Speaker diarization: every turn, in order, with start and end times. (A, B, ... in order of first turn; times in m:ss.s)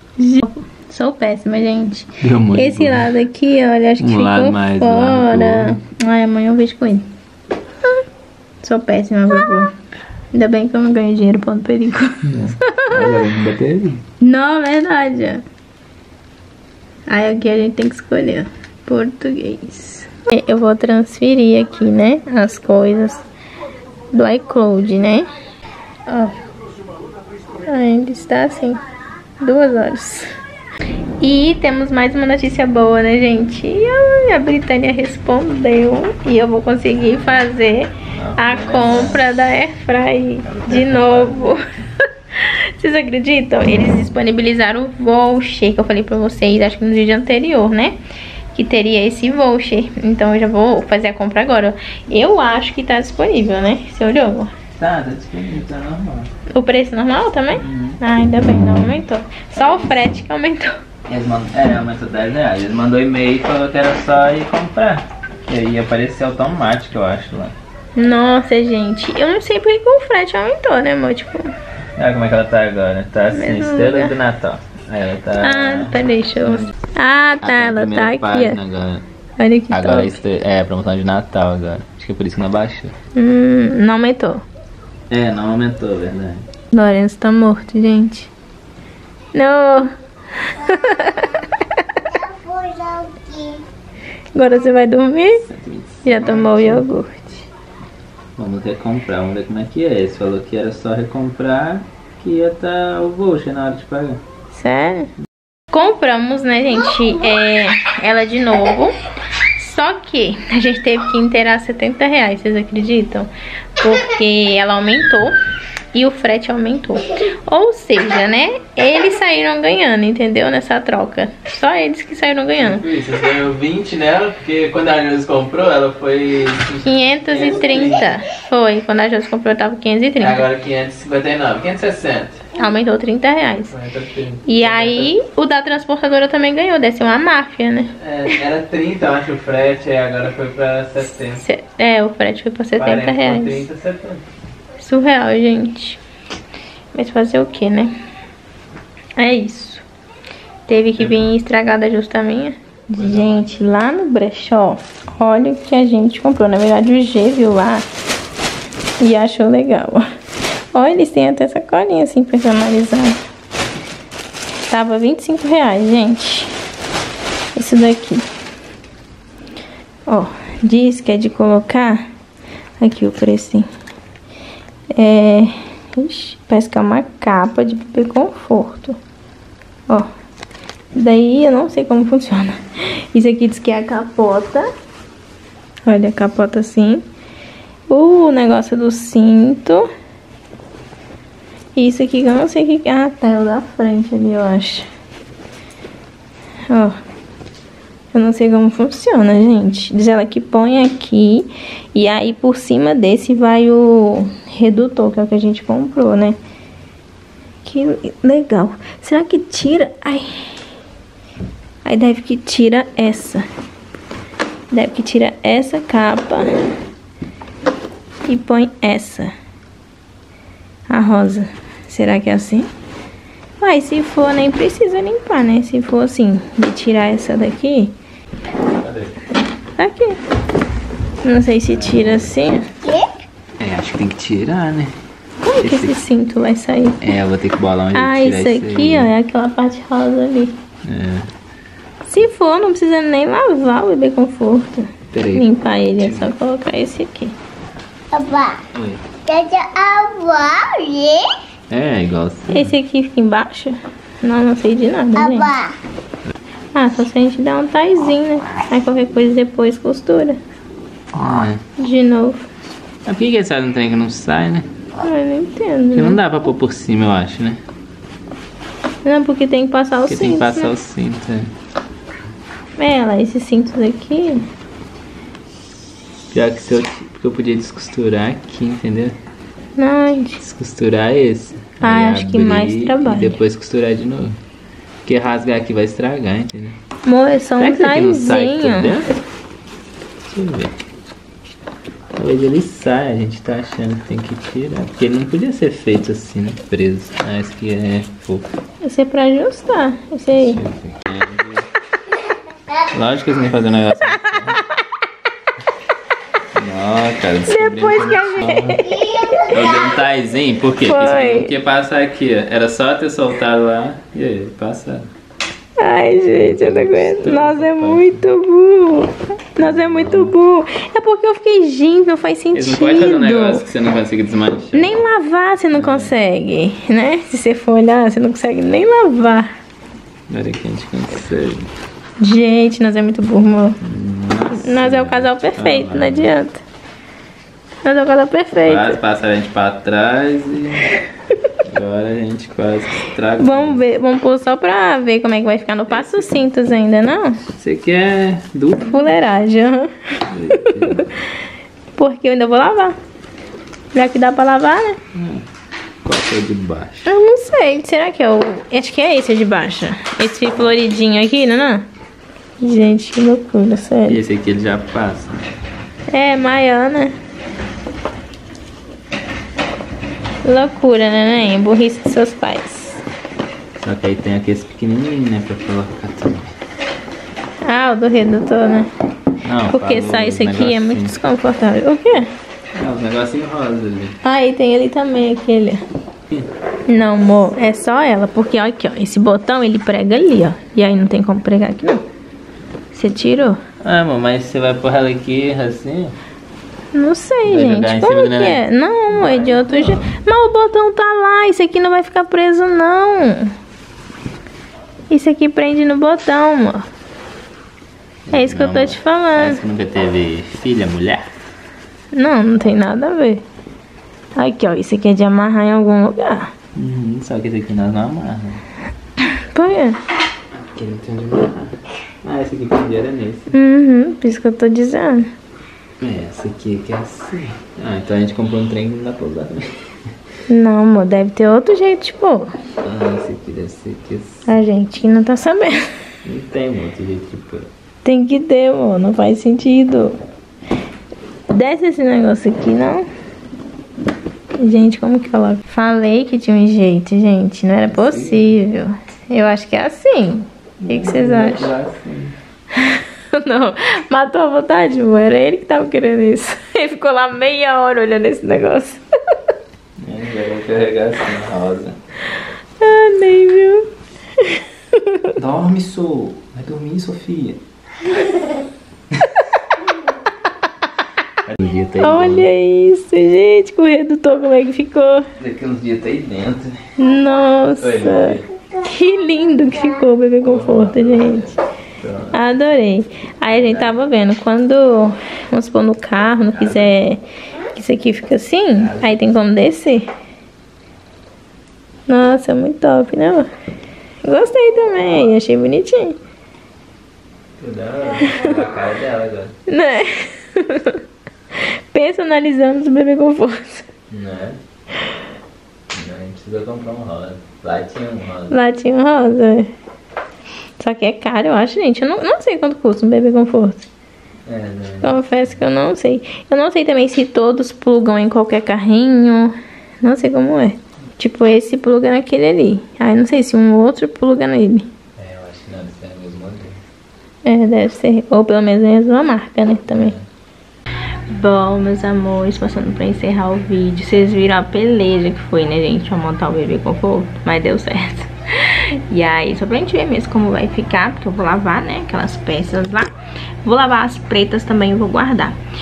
0:00.2-0:07.1 A
0:02.2-0:03.1 B
0:04.0-0:05.8 B
0:08.6-0:09.7 A
0:10.3-0:13.2 A
0:12.2-0:14.0 B
0:14.2-0:15.4 A
0:17.1-0:23.2 A
0:24.1-0:25.3 A
0:26.1-0:26.3 A
0:27.6-0:28.8 A
0:29.4-0:30.3 A
0:31.2-0:41.6 A
0:38.1-0:39.3 B
0:40.4-0:41.6 B
0:42.3-0:48.0 A
0:48.5-0:54.5 A
0:54.8-0:56.3 B
0:56.5-1:00.7 A
0:57.6-0:58.0 B
1:01.0-1:07.6 B
1:08.0-1:11.5 A
1:12.0-1:16.7 B
1:13.3-1:14.2 A
1:15.4-1:18.6 A
1:17.4-1:19.0 B
1:19.4-1:20.2 A
1:19.7-1:22.9 B
1:23.1-1:24.4 A
1:25.1-1:26.5 B
1:26.7-1:28.3 A
1:29.3-1:31.4 A
1:30.7-1:31.4 C
1:32.1-1:33.6 C
1:34.3-1:35.4 A
1:35.4-1:36.9 B
1:36.0-1:37.5 A
1:38.4-1:44.2 B
1:44.5-1:45.1 A
1:45.7-1:49.0 A
1:49.6-1:55.4 A
1:55.9-2:02.8 A
2:02.6-2:08.1 B
2:06.8-2:10.4 A
2:10.2-2:12.4 B
2:12.6-2:13.7 A
2:13.7-2:15.1 B
2:14.4-2:17.9 A
2:18.0-2:21.4 B
2:21.4-2:23.6 A
2:22.8-2:24.2 B
2:24.8-2:26.0 A
2:26.9-2:27.9 A
2:29.2-2:29.8 A
2:30.7-2:37.8 A
2:31.0-2:31.3 B
2:33.0-2:33.6 B
2:39.0-2:40.1 A
2:40.7-2:43.2 A
2:44.7-2:46.5 A
2:47.5-2:48.2 A
2:50.1-2:52.0 A
2:52.8-2:53.7 A
2:54.9-2:59.0 A
3:00.9-3:04.7 A
3:05.8-3:07.0 A
3:07.9-3:09.9 A
3:11.8-3:14.9 A
3:16.7-3:17.0 A
3:18.1-3:26.4 A
3:27.6-3:30.6 A
3:31.8-3:33.4 A
3:34.7-3:36.6 A
3:38.2-3:39.3 A
3:40.9-3:42.7 A
3:43.6-3:47.9 A
3:48.8-3:49.2 B
3:49.8-3:50.2 A
3:51.2-3:52.7 A
3:51.7-3:52.3 B
3:53.6-3:54.9 B
3:55.4-3:57.1 A
3:55.6-3:56.0 B
3:57.0-3:59.1 B
3:57.9-4:00.6 A
4:00.8-4:01.3 B
4:02.0-4:07.4 A
4:05.1-4:06.3 B
4:08.1-4:08.6 C
4:08.7-4:09.0 B
4:09.3-4:11.3 C
4:11.7-4:12.7 B
4:12.5-4:15.5 A
4:15.2-4:15.7 C
4:16.7-4:20.4 A
4:21.1-4:21.6 B
4:21.8-4:22.5 A
4:23.0-4:24.7 B
4:25.0-4:26.2 A
4:25.9-4:27.6 B
4:29.0-4:30.7 A
4:30.1-4:31.5 B
4:32.8-4:34.5 A
4:36.3-4:39.2 B
4:39.8-4:40.4 A
4:40.4-4:44.4 B
4:41.8-4:43.4 A
4:45.0-4:46.8 B
4:47.0-4:49.1 A
4:47.6-4:49.1 B
4:50.2-4:50.8 B
4:52.1-4:58.4 B
4:58.8-5:00.6 A
5:00.4-5:01.7 B
5:02.9-5:04.6 B
5:06.5-5:08.9 B
5:07.5-5:09.5 A
5:08.8-5:09.9 C
5:09.5-5:15.1 B
5:10.8-5:11.5 A
5:15.8-5:23.6 A
5:16.3-5:18.3 B
5:19.6-5:20.4 B
5:22.5-5:25.0 B
5:24.7-5:29.5 A
5:25.7-5:26.1 B
5:30.3-5:31.7 B
5:32.2-5:33.8 A
5:33.8-5:36.3 B
5:34.5-5:36.6 A
5:37.8-5:39.0 A
5:38.6-5:40.9 B
5:41.6-5:43.8 B
5:43.4-5:47.4 A
5:45.9-5:46.3 B
5:47.4-5:49.1 B
5:48.8-5:51.1 A
5:50.3-5:51.1 B
5:52.0-5:53.0 A
5:53.9-5:55.0 A
5:55.1-5:55.4 B
5:56.0-5:57.1 B
5:57.0-6:01.9 A
6:02.6-6:04.2 A
6:04.1-6:05.4 B
6:06.1-6:07.2 A
6:10.4-6:13.0 A
6:13.8-6:16.5 B
6:17.6-6:18.9 A
6:19.4-6:21.2 B
6:19.7-6:22.3 A
6:22.7-6:24.2 B
6:24.2-6:25.8 A
6:26.9-6:32.0 A
6:32.9-6:33.6 A
6:33.8-6:36.2 B
6:36.9-6:43.5 A
6:37.4-6:40.1 B
6:45.1-6:46.9 A
6:48.3-6:51.3 B
6:48.3-6:49.6 A
6:52.1-6:53.4 A
6:54.4-6:56.5 A
6:56.7-6:58.6 B
6:59.3-7:00.0 A
7:00.5-7:03.5 B
7:03.5-7:05.3 A
7:06.0-7:09.9 B
7:10.5-7:12.5 A
7:12.8-7:14.4 B
7:14.5-7:15.8 A
7:16.2-7:17.7 B
7:18.0-7:20.2 A
7:21.5-7:23.1 A
7:24.6-7:31.7 A
7:27.9-7:28.6 B
7:30.8-7:32.4 B
7:32.8-7:39.0 A
7:40.0-7:42.0 B
7:42.8-7:45.4 A
7:45.4-7:47.6 B
7:51.4-7:52.5 B
7:52.0-7:55.3 A
7:55.4-7:56.8 B
7:57.0-8:01.5 A
7:57.8-7:58.5 B
8:00.4-8:02.4 B
8:02.3-8:07.2 A
8:03.5-8:04.0 B
8:06.5-8:06.9 B
8:07.7-8:10.1 A
8:08.7-8:09.3 B
8:12.1-8:13.5 A
8:14.2-8:16.2 A
8:17.6-8:19.6 B
8:19.7-8:21.0 A
8:21.6-8:23.9 A
8:24.1-8:24.6 B
8:25.9-8:28.6 B
8:28.5-8:29.7 A
8:30.8-8:33.8 A
8:34.4-8:35.2 B
8:35.0-8:44.9 A
8:45.2-8:46.8 B
8:47.4-8:50.1 A
8:49.9-8:50.2 B
8:51.3-9:03.1 A
9:03.6-9:05.6 A